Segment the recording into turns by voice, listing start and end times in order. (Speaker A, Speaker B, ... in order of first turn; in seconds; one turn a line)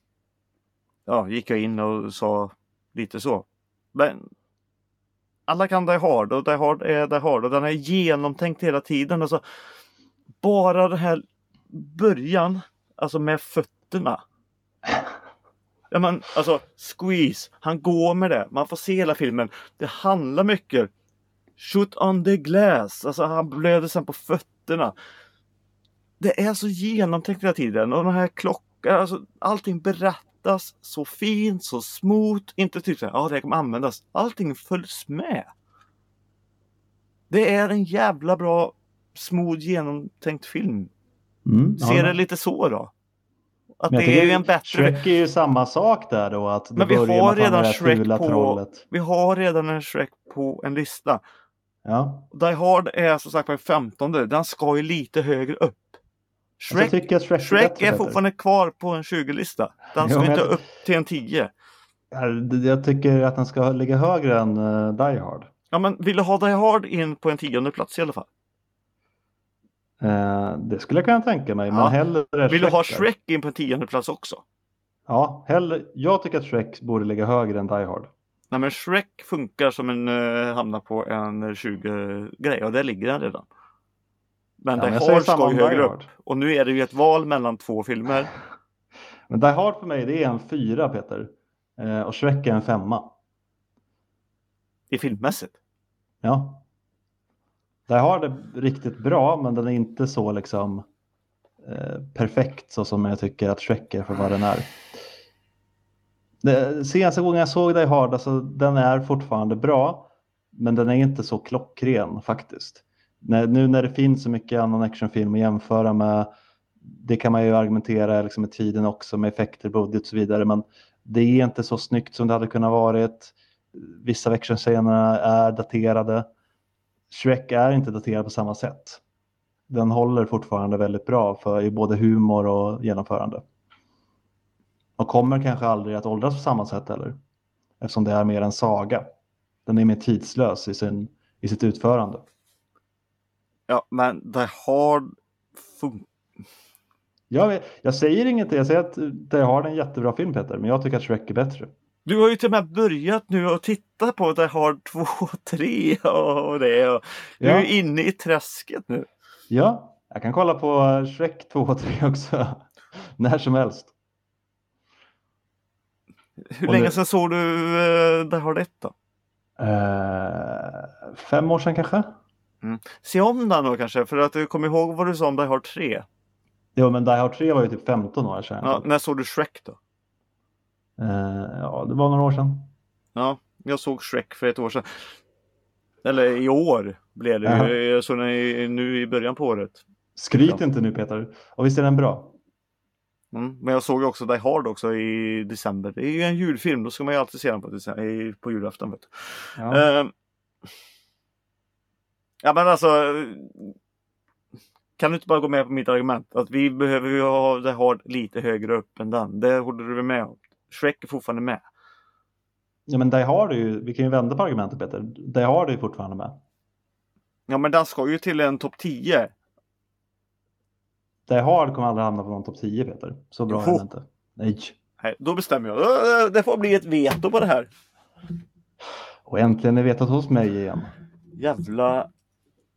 Speaker A: 1.1-4.3
Speaker A: 5.5-9.4
Speaker A: 10.4-14.2
Speaker A: 15.9-20.9
Speaker A: 21.6-24.9
Speaker A: 26.2-35.5
Speaker A: 37.3-40.9
Speaker B: 41.5-42.1
Speaker A: 41.8-42.9
Speaker A: 43.8-45.0
Speaker B: 43.9-48.8
Speaker A: 46.8-51.2
Speaker B: 51.8-52.3
Speaker A: 52.3-55.9
Speaker A: 56.6-61.5
Speaker B: 56.7-58.2
Speaker B: 60.0-60.6
Speaker B: 62.1-65.5
Speaker A: 65.7-68.3
Speaker B: 70.0-73.1
Speaker A: 71.7-72.0
Speaker A: 72.5-74.4
Speaker B: 75.1-78.1
Speaker A: 78.5-83.5
Speaker A: 84.6-88.3
Speaker B: 84.7-86.1
Speaker B: 89.3-93.1
Speaker A: 94.9-95.5
Speaker B: 96.2-96.6
Speaker B: 97.9-100.8
Speaker B: 101.6-104.7
Speaker B: 106.4-116.3
Speaker B: 116.8-126.3
Speaker B: 127.1-129.0
Speaker B: 129.7-133.4
Speaker B: 135.0-137.2
Speaker B: 137.8-139.1
Speaker B: 139.7-142.2
Speaker A: 143.7-146.1
Speaker B: 147.3-151.7
Speaker A: 152.1-159.1
Speaker B: 157.4-157.7
Speaker B: 159.5-162.7
Speaker B: 163.2-163.9
Speaker A: 166.5-168.9
Speaker B: 166.7-166.9
Speaker B: 169.6-172.1
Speaker A: 172.6-176.1
Speaker B: 176.7-178.8
Speaker A: 178.6-179.8
Speaker B: 181.0-182.7
Speaker A: 183.1-185.0
Speaker A: 186.0-189.8
Speaker B: 187.4-187.7
Speaker B: 190.2-192.3
Speaker A: 190.3-190.6
Speaker A: 193.3-200.1
Speaker B: 199.6-199.8
Speaker A: 202.4-203.7
Speaker A: 205.0-211.6
Speaker B: 212.9-216.4
Speaker A: 217.5-219.3
Speaker B: 221.3-224.7
Speaker A: 223.5-223.8
Speaker A: 225.0-227.7
Speaker B: 229.2-230.9
Speaker A: 231.3-232.1